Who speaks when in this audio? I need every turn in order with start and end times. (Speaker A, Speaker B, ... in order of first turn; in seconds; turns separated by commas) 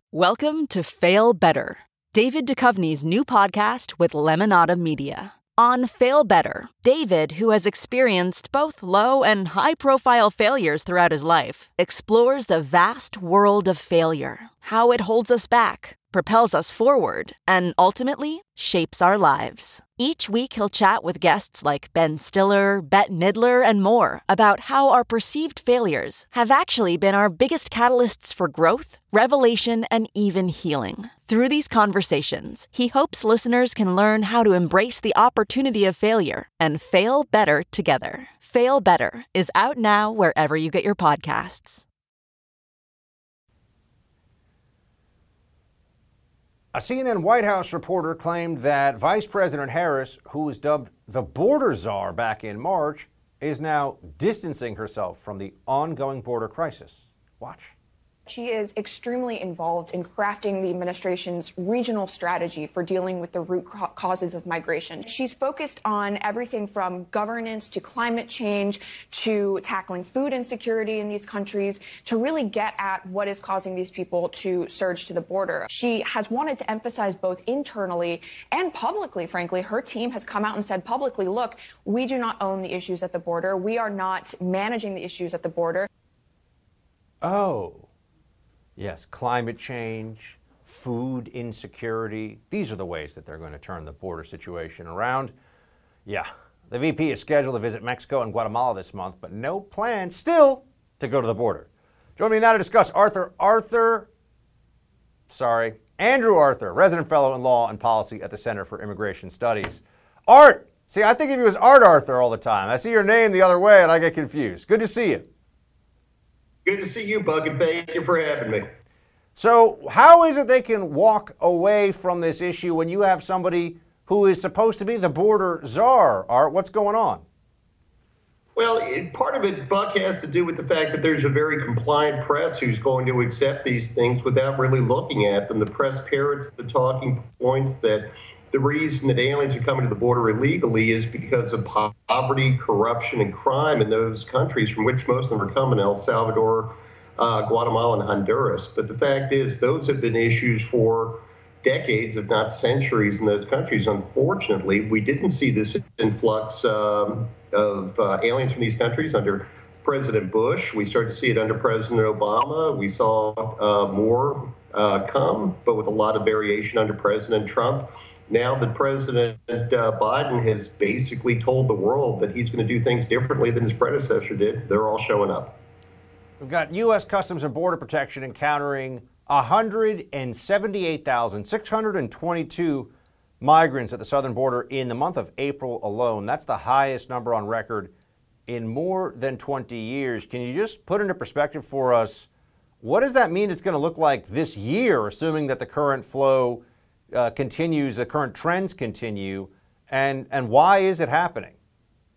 Speaker A: 0.1-41.8, Speaker B: 46.7-57.7, Speaker C: 58.3-85.9, Speaker B: 87.2-87.9, Speaker B: 88.8-95.3, Speaker B: 96.0-104.1, Speaker B: 105.3-115.2, Speaker D: 116.7-118.7, Speaker B: 119.3-127.2, Speaker D: 128.6-175.6, Speaker B: 176.4-182.9, Speaker B: 183.4-187.9, Speaker B: 188.5-192.3, Speaker B: 192.8-201.5